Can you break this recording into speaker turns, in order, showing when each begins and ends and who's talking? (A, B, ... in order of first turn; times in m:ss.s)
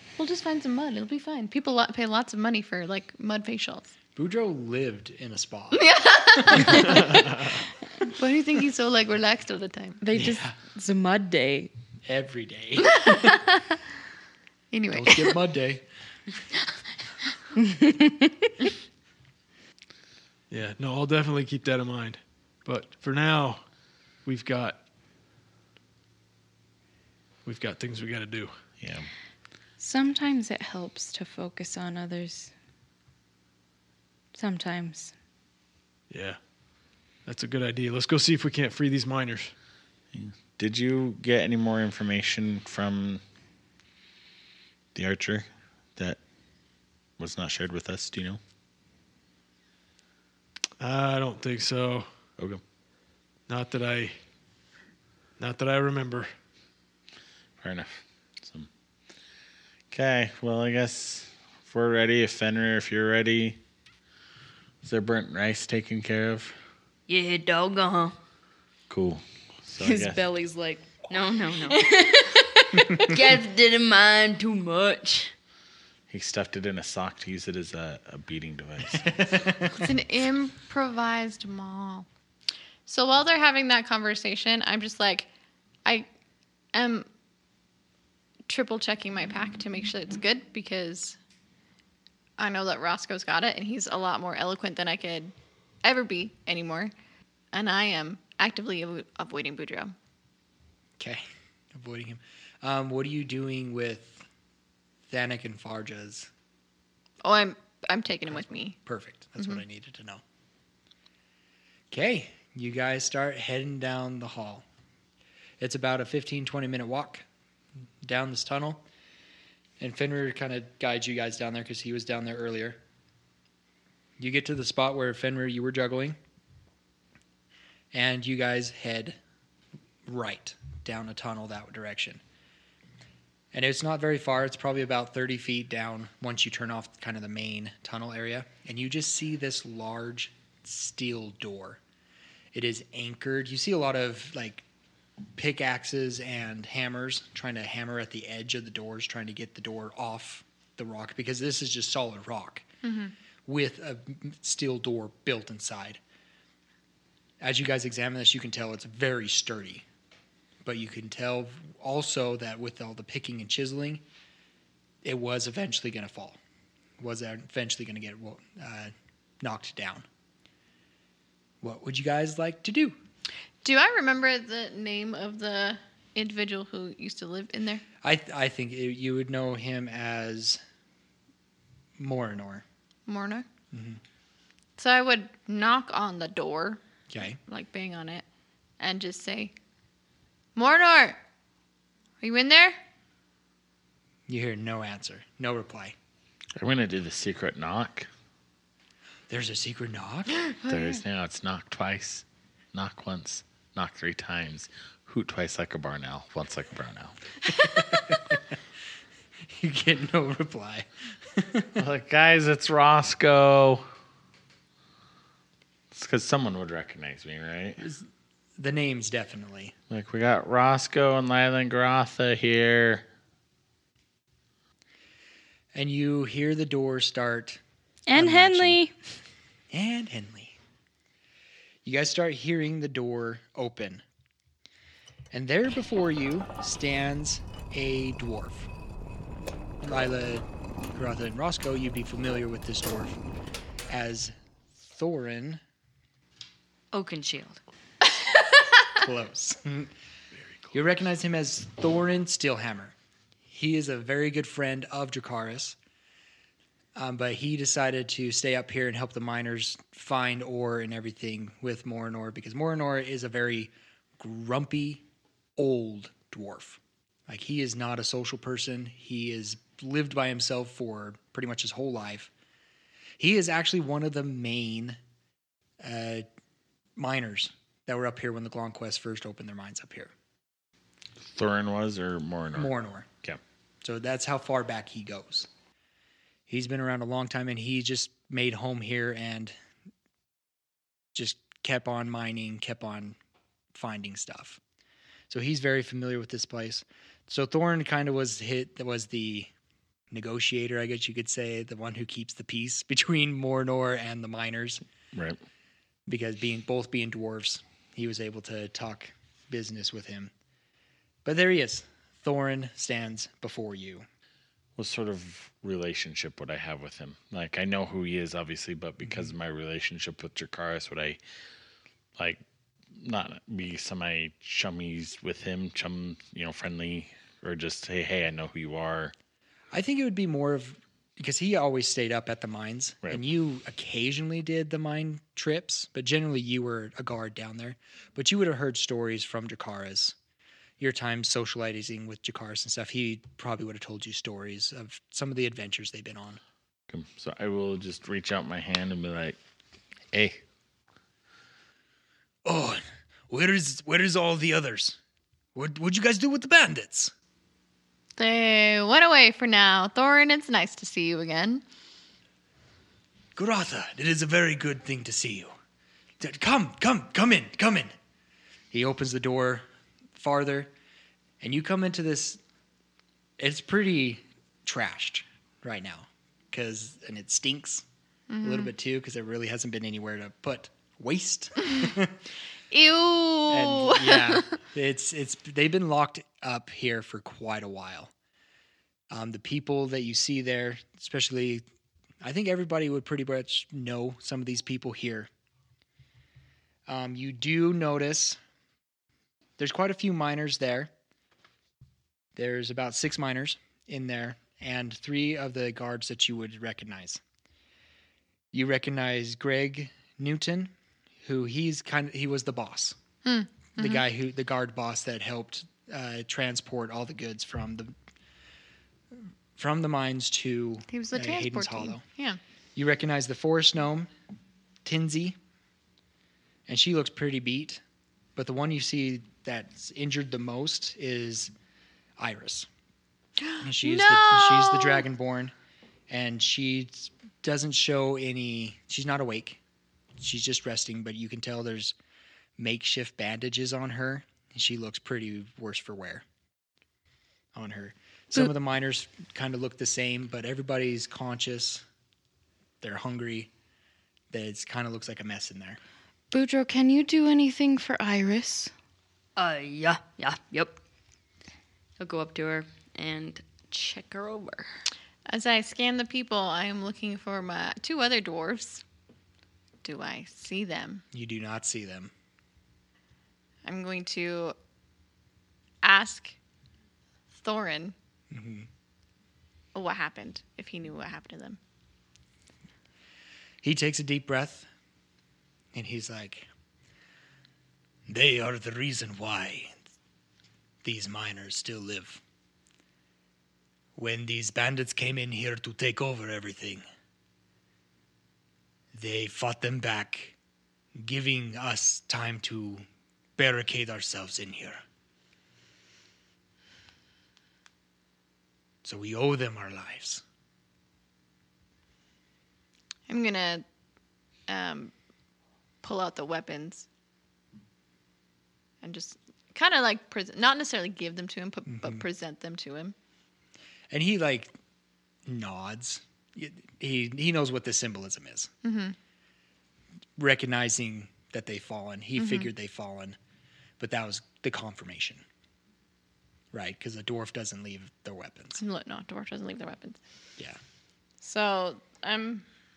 0:00.2-0:03.9 A
0:04.2-0:07.0 B
0:05.7-0:07.2 A
0:08.2-0:10.0 A
0:10.0-0:11.7 C
0:10.1-0:10.6 B
0:12.1-0:13.4 B
0:12.9-0:13.6 A
0:14.7-0:15.4 A
0:14.9-0:15.9 B
0:17.8-0:18.5 C
0:20.5-0:23.7 D
0:24.2-0:24.8 D
0:27.4-0:28.5 D
0:28.8-0:29.1 E
0:29.8-0:32.5 C
0:34.3-0:35.1 C
0:36.1-0:36.4 D
0:37.2-0:39.5 D
0:40.1-0:43.2 E
0:45.0-0:46.2 E
0:47.2-0:48.4 E
0:50.8-0:52.1 D
0:53.5-0:54.2 D
0:55.4-0:56.3 D
0:57.6-0:58.7 E
0:59.9-1:03.6 E
1:04.8-1:06.6 E
1:07.1-1:08.2 F
1:08.9-1:10.2 E
1:09.8-1:10.8 C
1:11.1-1:15.3 F
1:16.1-1:19.4 E
1:19.0-1:19.7 B
1:19.8-1:22.1 A
1:22.9-1:25.3 A
1:26.7-1:27.1 A
1:28.5-1:31.2 A
1:32.4-1:36.9 A
1:37.5-1:39.9 A
1:41.0-1:44.3 B
1:45.1-1:46.3 B
1:47.2-1:48.8 A
1:48.3-1:50.2 B
1:51.9-1:54.6 B
1:55.6-1:57.3 B
1:58.0-1:58.8 B
1:59.8-2:02.8 B
2:04.2-2:06.2 B
2:07.9-2:09.2 B
2:10.1-2:12.2 B
2:13.5-2:21.8 B
2:22.5-2:24.6 B
2:25.4-2:32.6 B
2:32.8-2:33.1 A
2:33.5-2:36.0 B
2:37.4-2:39.9 B
2:40.6-2:44.0 B
2:45.0-2:46.4 B
2:47.0-2:50.1 B
2:51.6-2:53.0 B
2:53.6-2:57.8 A
2:58.0-3:00.6 B
3:02.0-3:02.6 B
3:03.1-3:03.5 A
3:03.7-3:04.0 B
3:04.8-3:06.8 A
3:07.1-3:07.4 B
3:07.4-3:08.2 A
3:08.8-3:09.5 A
3:10.6-3:11.2 A
3:12.2-3:12.8 A
3:14.3-3:16.0 B
3:16.6-3:18.1 E
3:19.3-3:20.4 B
3:20.7-3:20.9 A
3:20.7-3:27.2 E
3:27.6-3:28.4 B
3:29.5-3:31.8 B
3:31.8-3:33.9 E
3:35.9-3:37.8 E
3:37.8-3:38.1 B
3:38.6-3:39.8 B
3:39.9-3:43.1 E
3:45.7-3:47.6 B
3:48.1-3:48.9 C
3:48.1-3:48.8 B
3:49.7-3:50.6 B
3:51.8-3:54.0 B
3:55.3-3:58.7 B
3:59.8-4:03.2 B
4:03.9-4:05.6 B
4:06.9-4:07.6 F
4:09.0-4:09.9 B
4:10.7-4:13.0 B
4:13.5-4:15.8 B
4:17.0-4:25.0 B
4:25.6-4:32.3 B
4:33.2-4:35.0 B
4:35.8-4:36.3 B
4:37.0-4:40.1 B
4:41.2-4:42.7 E
4:42.6-4:43.1 B
4:43.8-4:45.5 B
4:46.5-4:49.5 B
4:51.1-4:53.2 B
4:53.7-4:54.6 B
4:55.3-4:59.5 B
5:00.1-5:04.8 B
5:05.1-5:05.4 E
5:06.1-5:10.3 B
5:11.2-5:14.1 B
5:14.8-5:21.2 E
5:23.0-5:29.1 E
5:29.7-5:40.2 B
5:40.8-5:46.4 B
5:46.9-5:49.4 E
5:50.1-5:50.4 E
5:52.4-5:55.0 B
5:55.6-5:57.1 B
5:58.2-6:01.6 A
6:03.4-6:05.5 B
6:06.2-6:07.9 B
6:08.7-6:09.6 B
6:10.2-6:10.7 B
6:11.4-6:12.4 B
6:13.4-6:17.9 B
6:18.3-6:18.7 A
6:18.4-6:22.2 B
6:22.7-6:24.5 A
6:23.5-6:28.1 B
6:29.1-6:31.6 B
6:32.2-6:35.3 B
6:36.9-6:38.4 B
6:39.6-6:40.9 B
6:42.4-6:47.2 B
6:48.5-6:50.7 B
6:51.2-6:53.0 B
6:53.2-6:54.0 A
6:53.8-6:57.9 B
6:59.6-7:02.0 B
7:00.9-7:02.4 A
7:02.8-7:04.1 B
7:04.8-7:05.4 B
7:06.7-7:07.8 B
7:08.4-7:11.5 B
7:12.2-7:12.7 B
7:13.4-7:15.0 A
7:13.6-7:15.5 B
7:16.1-7:19.6 B
7:20.2-7:22.0 B
7:22.6-7:26.3 B
7:27.5-7:31.8 B
7:32.8-7:33.5 B
7:34.3-7:35.8 B
7:36.3-7:38.7 C
7:39.4-7:40.8 F
7:42.0-7:44.7 F
7:45.3-7:48.8 A
7:49.8-7:51.0 A
7:51.1-7:52.1 B
7:53.6-7:54.6 A
7:55.8-7:56.4 A
7:57.3-7:58.0 A
7:58.3-7:58.7 B
7:59.8-8:01.6 A
8:03.6-8:04.7 B
8:05.7-8:06.5 B
8:08.1-8:09.8 B
8:10.8-8:12.2 B
8:14.0-8:16.8 B
8:18.9-8:20.4 B
8:21.0-8:22.9 B
8:23.4-8:24.8 B
8:28.8-8:30.2 B
8:33.1-8:33.6 A
8:34.5-8:34.9 A
8:35.8-8:36.9 A
8:38.8-8:43.0 A
8:41.7-8:42.0 B
8:43.9-8:44.6 B
8:45.3-8:48.5 B
8:48.6-8:49.0 A
8:50.2-8:53.2 B
8:52.2-8:52.5 A
8:53.8-8:55.2 B
8:56.5-8:58.6 B
8:58.6-9:00.0 A
9:01.2-9:02.5 A